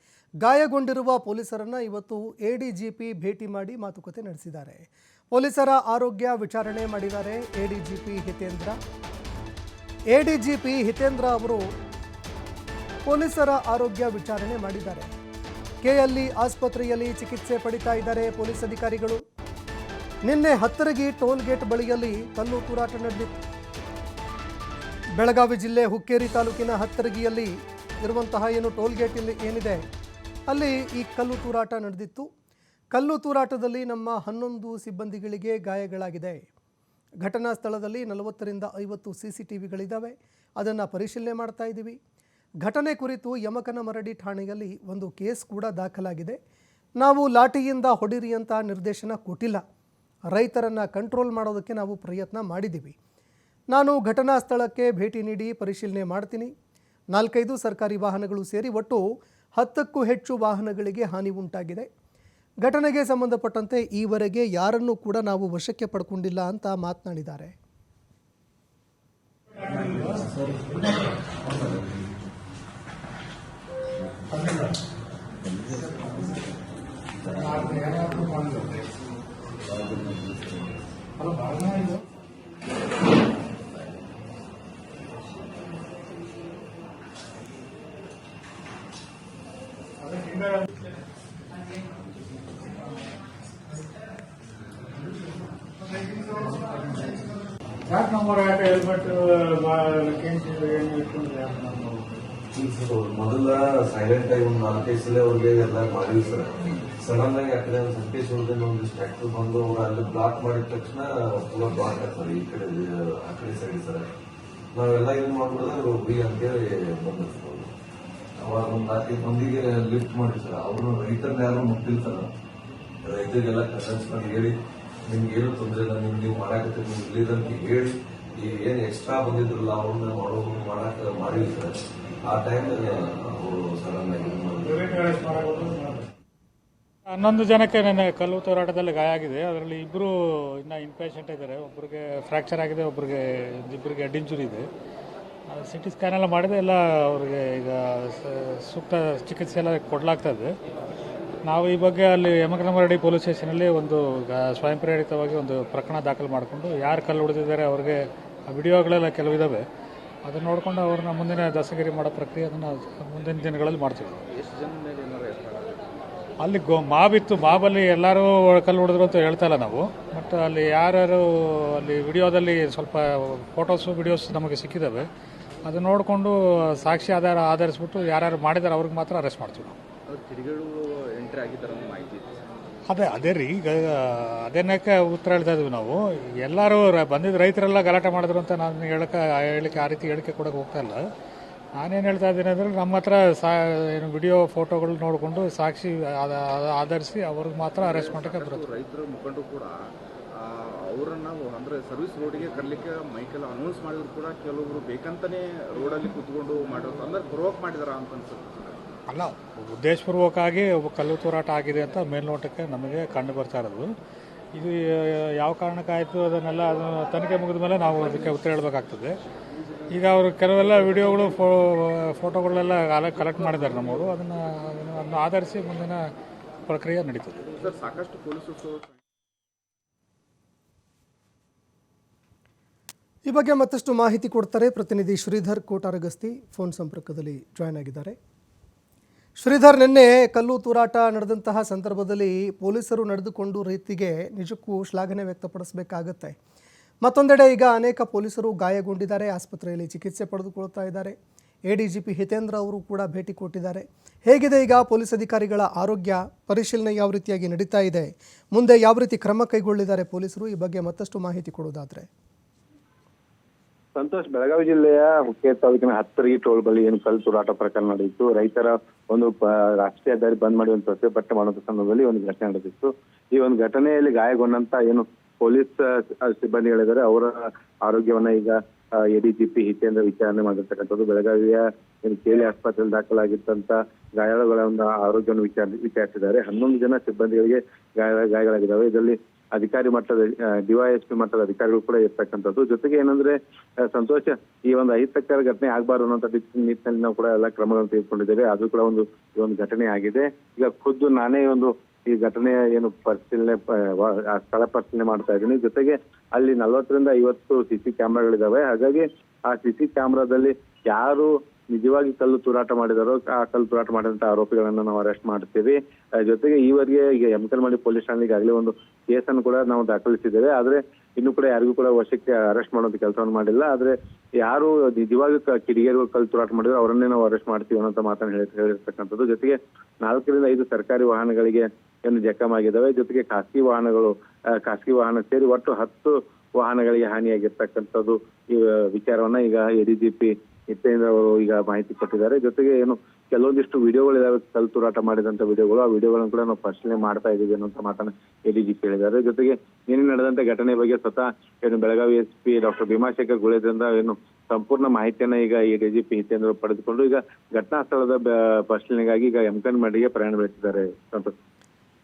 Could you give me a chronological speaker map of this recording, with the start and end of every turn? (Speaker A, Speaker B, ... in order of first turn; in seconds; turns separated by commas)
Speaker A: 0.4-8.8, Speaker A: 10.1-11.6, Speaker A: 13.1-15.1, Speaker A: 15.8-19.2, Speaker A: 20.2-23.3, Speaker A: 25.2-29.8, Speaker A: 30.5-32.3, Speaker A: 32.9-36.4, Speaker A: 37.2-42.0, Speaker A: 42.6-46.4, Speaker A: 47.0-49.6, Speaker A: 50.3-52.9, Speaker A: 53.7-56.5, Speaker A: 57.1-59.0, Speaker A: 59.6-61.9, Speaker A: 62.6-67.5, Speaker B: 69.6-71.8, Speaker B: 74.3-74.8, Speaker B: 77.3-78.8, Speaker C: 79.8-80.6, Speaker B: 81.2-82.0, Speaker B: 90.0-90.7, Speaker B: 96.0-97.2, Speaker B: 97.9-102.2, Speaker C: 102.5-114.1, Speaker C: 114.7-117.7, Speaker C: 118.4-122.3, Speaker C: 123.0-124.5, Speaker C: 125.1-135.0, Speaker B: 134.6-136.1, Speaker B: 137.1-144.7, Speaker B: 145.5-150.5, Speaker B: 151.4-159.6, Speaker B: 160.2-164.2, Speaker D: 164.3-165.8, Speaker B: 166.4-175.1, Speaker B: 175.6-179.8, Speaker D: 180.1-182.4, Speaker B: 182.9-191.0, Speaker B: 191.8-198.6, Speaker D: 197.8-199.8, Speaker D: 200.3-208.9, Speaker B: 209.1-213.9, Speaker B: 214.5-219.2, Speaker B: 219.9-226.0, Speaker B: 226.7-227.5, Speaker D: 227.5-229.0, Speaker A: 233.3-238.1, Speaker A: 239.4-246.3, Speaker A: 247.0-251.1, Speaker A: 251.7-262.1, Speaker E: 263.9-361.3